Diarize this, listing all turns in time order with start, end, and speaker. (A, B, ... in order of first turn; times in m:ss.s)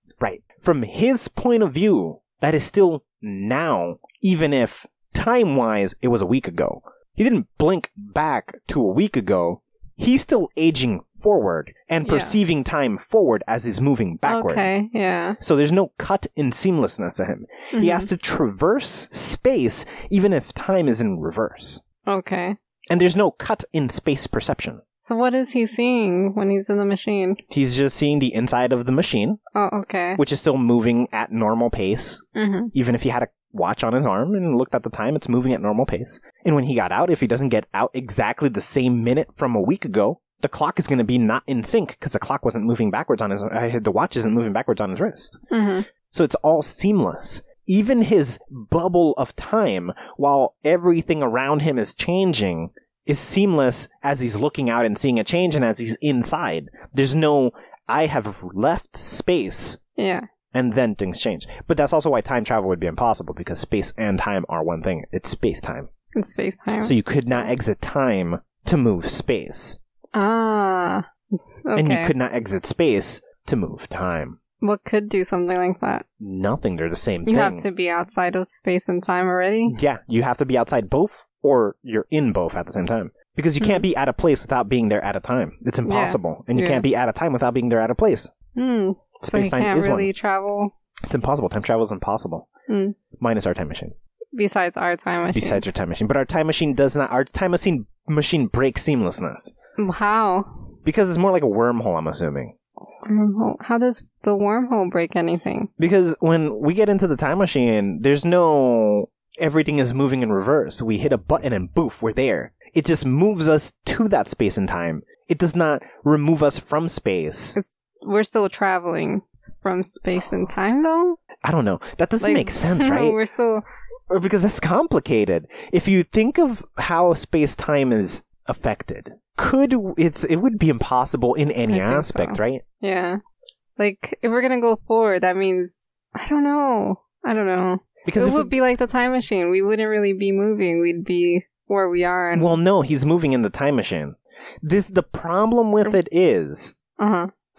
0:00.2-0:14.7 A
0:12.0-0:12.4 B
0:14.2-0:15.4 B
0:15.4-0:21.8 A
0:17.7-0:18.1 B
0:22.1-0:22.6 B
0:22.9-0:24.8 A
0:25.0-0:27.4 B
0:27.5-0:29.4 A
0:29.6-0:30.2 B
0:30.2-0:45.4 A
0:32.4-0:32.7 B
0:45.5-0:45.9 B
0:46.1-0:59.8 A
1:00.0-1:00.2 B
1:00.5-1:05.9 A
1:06.1-1:07.5 B
1:06.8-1:09.8 A
1:10.1-1:11.1 B
1:11.6-1:12.1 B
1:11.8-1:14.4 A
1:14.6-1:16.0 B
1:16.2-1:17.6 A
1:17.3-1:19.8 B
1:19.7-1:28.3 A
1:25.8-1:26.8 B
1:28.6-1:30.7 B
1:29.2-1:30.1 A
1:31.1-1:32.4 A
1:32.7-1:33.0 B
1:33.2-1:33.9 A
1:34.4-1:35.6 B
1:35.3-1:39.5 A
1:39.8-1:40.5 B
1:40.8-1:42.5 A
1:43.1-1:45.7 B
1:45.8-1:57.6 A
1:57.6-2:01.2 B
2:01.4-2:03.2 A
2:02.2-2:03.6 B
2:04.1-2:12.6 A
2:11.7-2:13.2 B
2:13.8-2:22.6 B
2:18.0-2:18.6 A
2:22.4-2:26.8 A
2:27.0-2:27.3 B